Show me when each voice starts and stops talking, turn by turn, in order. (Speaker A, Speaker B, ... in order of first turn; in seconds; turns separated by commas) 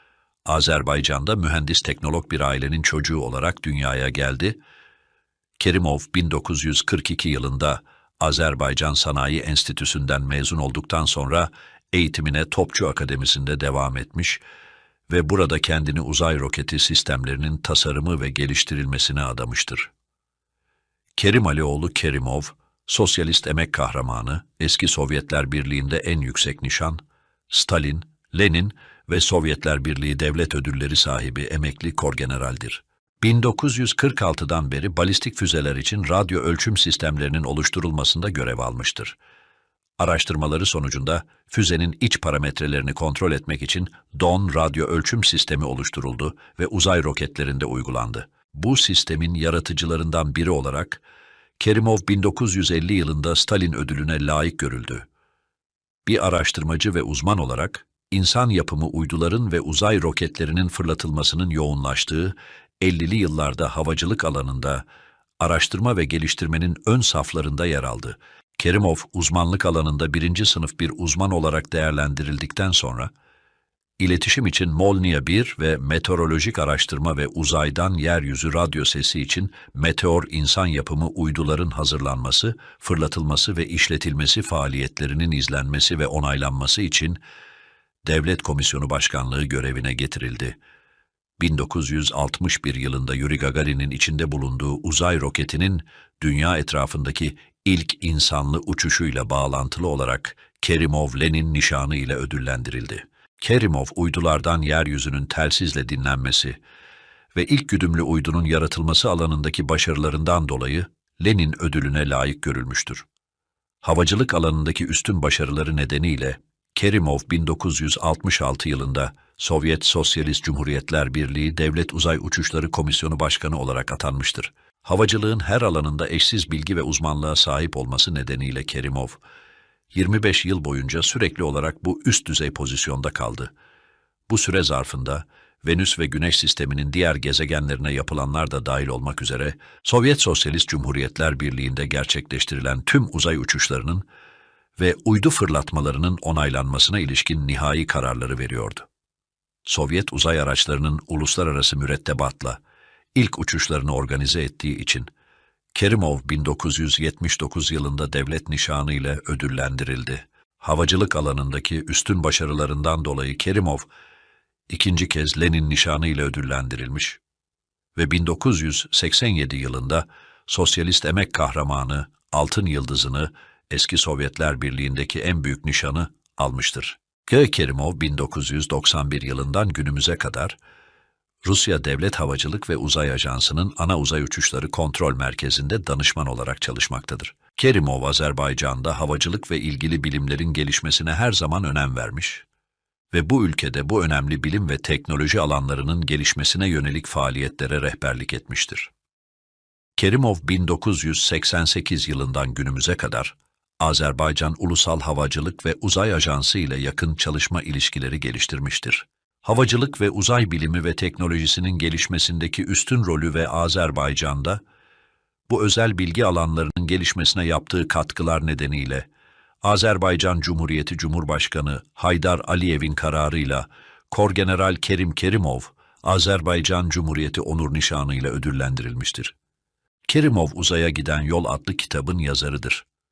Speaker A: 0.5-4.6, Speaker A: 5.6-14.4, Speaker A: 15.1-19.9, Speaker A: 21.2-39.2, Speaker A: 40.0-51.0, Speaker A: 51.6-55.1, Speaker A: 56.1-64.8, Speaker A: 65.4-73.1, Speaker A: 74.0-87.2, Speaker A: 88.0-90.6, Speaker A: 91.4-106.6, Speaker A: 107.3-113.0, Speaker A: 113.8-129.2, Speaker A: 129.9-133.5, Speaker A: 134.3-144.1, Speaker A: 144.8-148.9, Speaker A: 149.7-152.6, Speaker A: 153.2-155.1, Speaker A: 155.7-163.9, Speaker A: 164.7-167.2, Speaker A: 167.9-180.6, Speaker A: 181.4-192.5, Speaker A: 193.1-198.9, Speaker A: 200.0-214.6, Speaker A: 215.5-219.1, Speaker A: 219.6-229.3, Speaker A: 230.1-232.9